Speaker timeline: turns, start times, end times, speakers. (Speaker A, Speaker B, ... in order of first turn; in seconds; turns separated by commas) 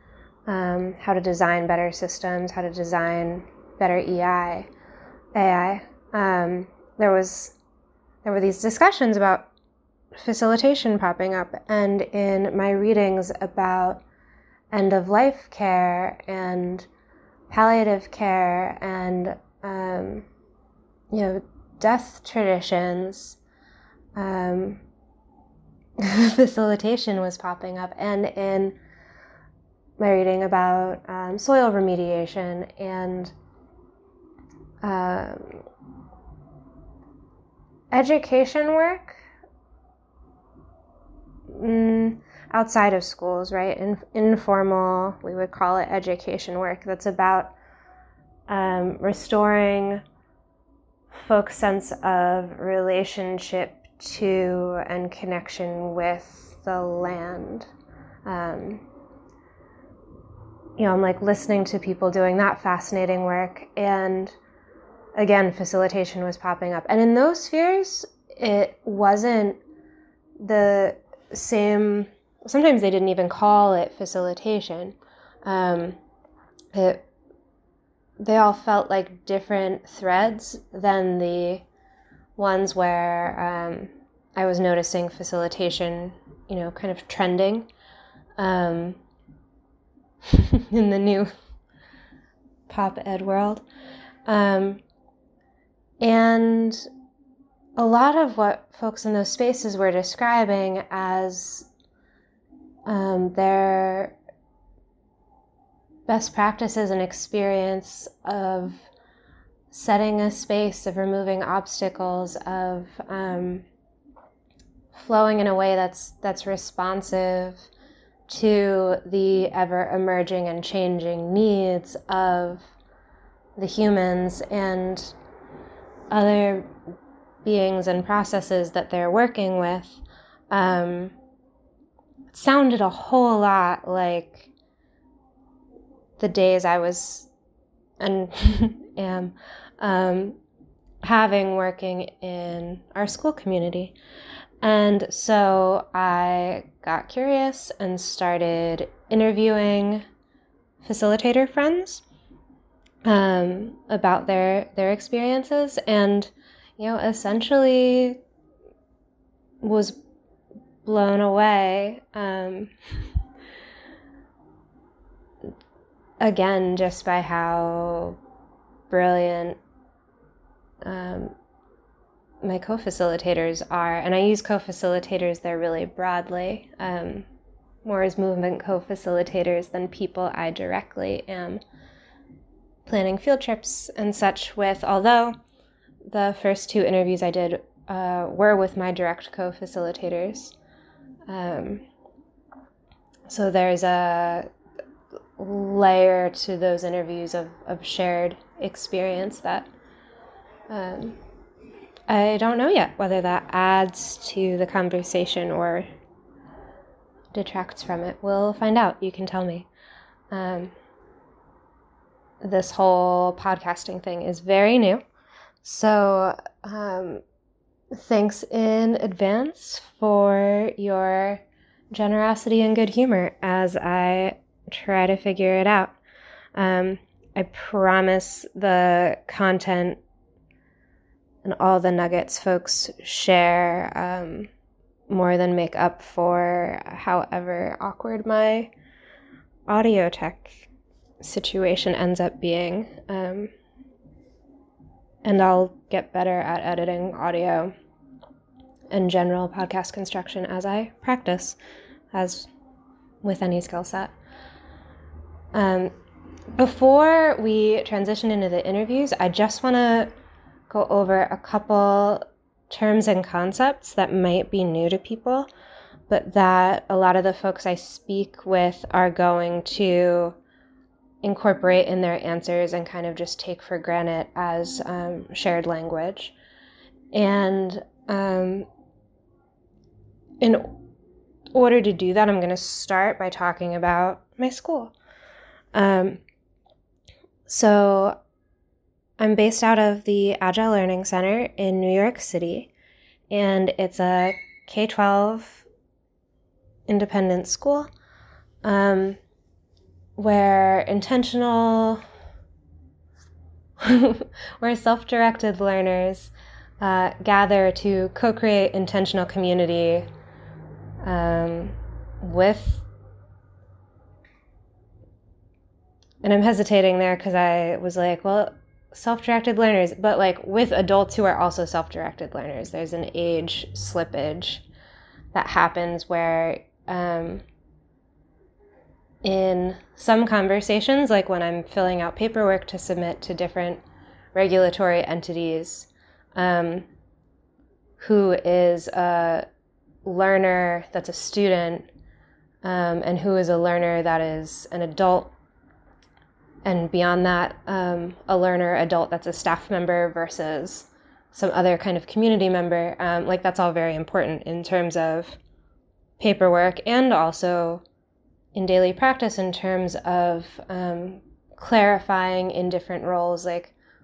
Speaker A: 0.5-4.7, Speaker A: 5.3-7.5, Speaker A: 8.2-9.5, Speaker A: 10.2-14.0, Speaker A: 14.7-16.9, Speaker A: 17.5-20.3, Speaker A: 21.1-23.4, Speaker A: 24.2-24.8, Speaker A: 26.0-28.8, Speaker A: 30.0-33.3, Speaker A: 34.8-35.6, Speaker A: 37.9-39.2, Speaker A: 41.5-47.5, Speaker A: 48.5-50.0, Speaker A: 51.1-57.7, Speaker A: 58.3-58.8, Speaker A: 60.8-64.3, Speaker A: 65.2-69.6, Speaker A: 70.4-76.0, Speaker A: 76.7-77.0, Speaker A: 78.2-81.7, Speaker A: 82.4-87.7, Speaker A: 88.4-89.0, Speaker A: 90.2-91.3, Speaker A: 92.7-93.6, Speaker A: 94.3-94.8, Speaker A: 96.0-96.9, Speaker A: 97.8-101.7, Speaker A: 102.9-104.2, Speaker A: 106.1-108.8, Speaker A: 109.7-113.7, Speaker A: 114.9-117.7, Speaker A: 118.3-122.7, Speaker A: 123.6-125.2, Speaker A: 126.1-126.7, Speaker A: 127.5-130.0, Speaker A: 130.5-131.2, Speaker A: 132.3-134.5, Speaker A: 136.2-137.3, Speaker A: 138.0-140.4, Speaker A: 141.0-143.9, Speaker A: 144.6-150.1, Speaker A: 150.8-152.0, Speaker A: 153.1-158.2, Speaker A: 159.6-160.0, Speaker A: 160.8-162.7, Speaker A: 166.2-168.2, Speaker A: 168.9-169.6, Speaker A: 170.8-171.3, Speaker A: 172.4-177.3, Speaker A: 177.8-181.6, Speaker A: 182.9-185.3, Speaker A: 186.1-190.6, Speaker A: 191.3-191.8, Speaker A: 193.3-194.5, Speaker A: 195.4-199.7, Speaker A: 200.7-201.2, Speaker A: 202.1-205.9, Speaker A: 207.3-209.7, Speaker A: 210.3-210.7, Speaker A: 212.4-215.0, Speaker A: 215.6-217.2, Speaker A: 217.9-226.0, Speaker A: 226.6-230.0, Speaker A: 231.4-234.5, Speaker A: 235.1-238.7, Speaker A: 239.7-240.7, Speaker A: 241.2-243.5, Speaker A: 245.2-247.7, Speaker A: 248.9-251.6, Speaker A: 252.1-252.5, Speaker A: 253.2-254.1, Speaker A: 255.5-255.9, Speaker A: 256.6-260.1, Speaker A: 260.7-265.5, Speaker A: 266.1-270.4, Speaker A: 271.2-276.4, Speaker A: 277.1-278.7, Speaker A: 280.4-280.7, Speaker A: 281.5-284.9, Speaker A: 285.7-286.2, Speaker A: 287.5-288.2, Speaker A: 289.2-292.7, Speaker A: 293.3-295.7, Speaker A: 296.9-297.9, Speaker A: 298.6-299.2, Speaker A: 300.2-302.0, Speaker A: 303.8-310.1, Speaker A: 311.0-312.9, Speaker A: 316.2-324.6, Speaker A: 325.3-327.4, Speaker A: 329.2-333.8, Speaker A: 334.3-336.9, Speaker A: 338.0-339.4, Speaker A: 340.1-341.9, Speaker A: 342.6-345.3, Speaker A: 346.6-355.4, Speaker A: 356.2-357.8, Speaker A: 358.6-363.8